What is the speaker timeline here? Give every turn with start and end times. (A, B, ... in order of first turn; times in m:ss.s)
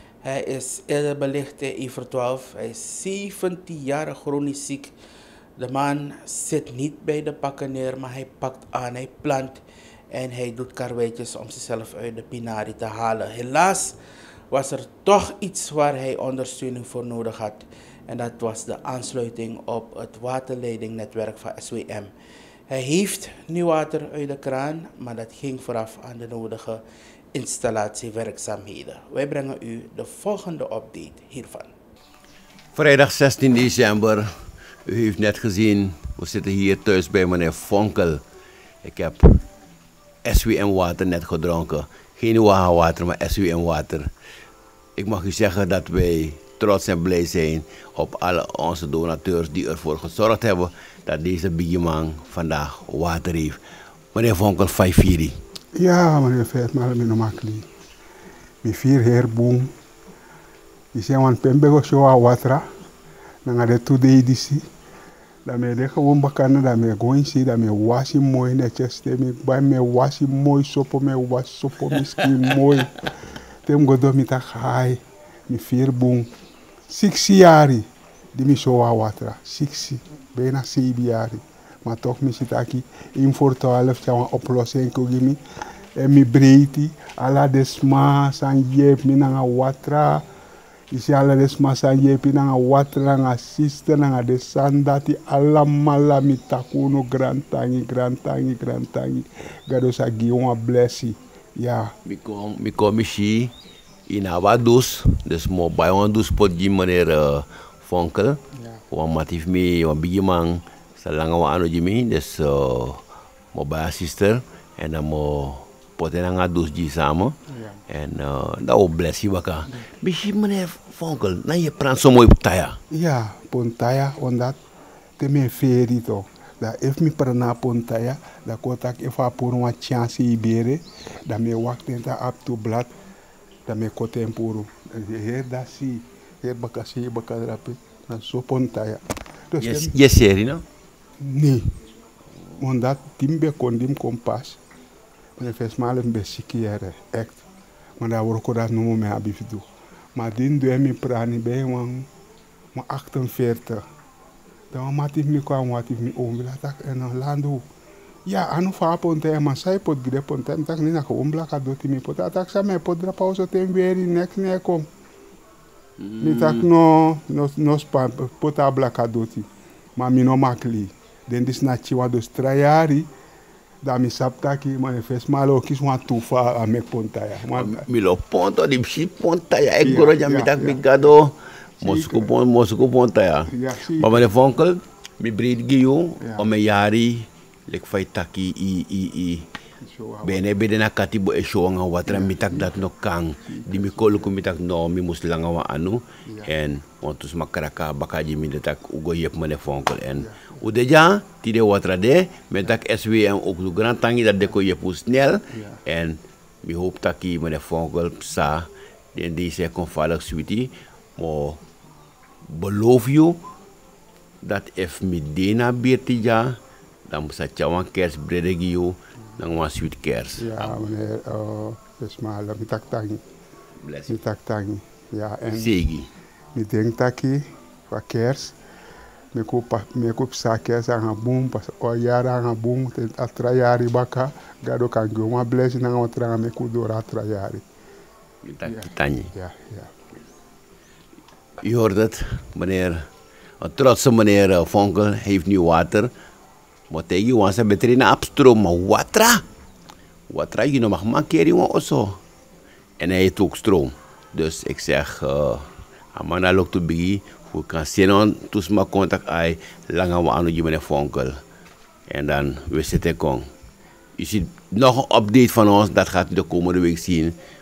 0:00.2-0:04.9 A
0:05.6-0:09.6 A
0:10.1-0:14.0 A
0:14.5-0:22.1 A
0:22.7-0:26.8 A
0:27.3-0:31.7 A
0:32.8-0:34.3 B
0:34.9-0:38.2 B
0:38.8-0:39.4 B
0:40.2-0:44.1 B
0:45.0-0:53.6 B
0:54.1-0:55.3 B
0:55.8-0:57.6 C
0:58.6-0:59.7 C
1:00.9-1:02.7 C
1:03.4-1:04.6 C
1:05.4-1:13.1 C
1:13.7-1:16.3 C
1:16.9-1:25.4 C
1:26.0-1:30.2 C
1:30.9-1:41.9 C
1:42.0-1:43.5 B
1:44.1-1:53.0 B
1:48.6-1:48.8 C
1:53.5-1:57.4 B
1:57.5-1:57.8 C
1:57.9-2:02.8 B
2:02.9-2:04.6 C
2:05.2-2:12.9 C
2:13.7-2:20.0 C
2:19.6-2:20.6 B
2:21.2-2:21.8 C
2:22.6-2:24.6 C
2:25.4-2:27.4 C
2:28.0-2:32.1 C
2:32.7-2:33.8 C
2:34.7-2:37.6 C
2:38.2-2:44.8 C
2:46.0-2:46.6 B
2:46.2-2:53.1 C
2:53.8-2:57.8 C
2:57.5-3:09.5 B
2:59.8-3:00.8 C
3:01.8-3:02.3 C
3:03.5-3:04.2 C
3:06.2-3:06.5 C
3:09.8-3:10.4 C
3:10.2-3:31.6 B
3:12.1-3:12.8 C
3:13.4-3:14.3 C
3:16.2-3:16.5 C
3:20.2-3:20.6 C
3:25.5-3:25.8 C
3:32.4-3:33.4 B
3:34.4-3:40.6 B
3:40.4-3:43.2 C
3:43.8-3:44.2 B
3:44.1-3:45.8 C
3:45.5-3:46.1 B
3:46.5-3:48.6 C
3:49.3-3:57.6 C
3:58.4-3:59.3 B
3:58.6-3:59.9 C
4:01.6-4:03.0 B
4:03.6-4:06.1 B
4:06.9-4:09.4 B
4:10.3-4:12.2 B
4:13.0-4:21.3 B
4:22.1-4:23.4 B
4:24.2-4:27.4 B